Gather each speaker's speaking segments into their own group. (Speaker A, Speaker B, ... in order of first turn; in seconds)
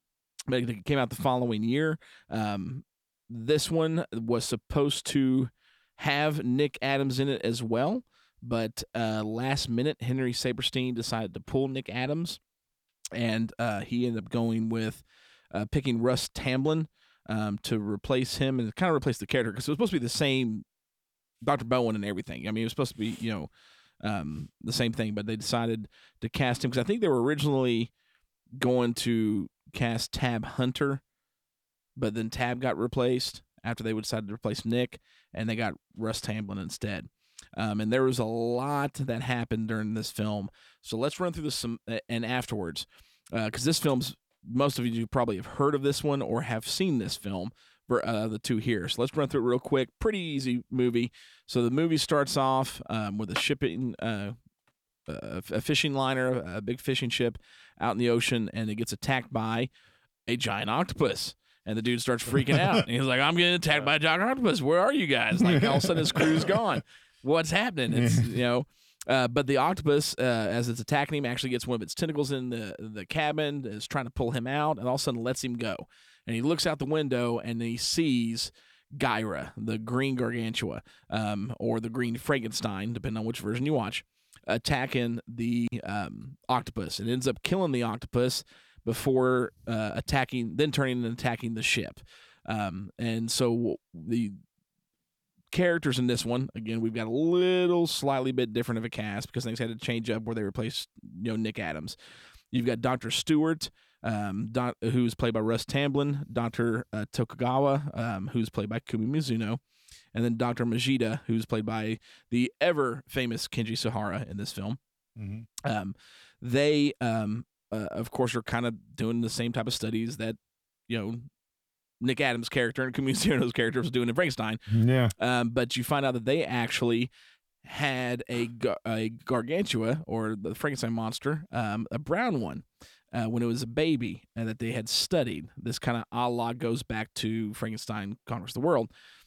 Speaker A: 0.5-12.4, 13.1-20.6, 21.4-23.5, 24.0-27.9, 28.6-31.0, 31.9-54.3, 55.1-59.7, 60.3-94.4, 95.5-102.0, 102.5-109.6, 110.1-114.8, 115.6-120.4, 120.9-121.3, 122.0-124.6, 125.2-127.1, 127.6-138.9
Speaker B: 65.4-66.4, 67.9-68.3, 115.2-115.5, 124.7-125.1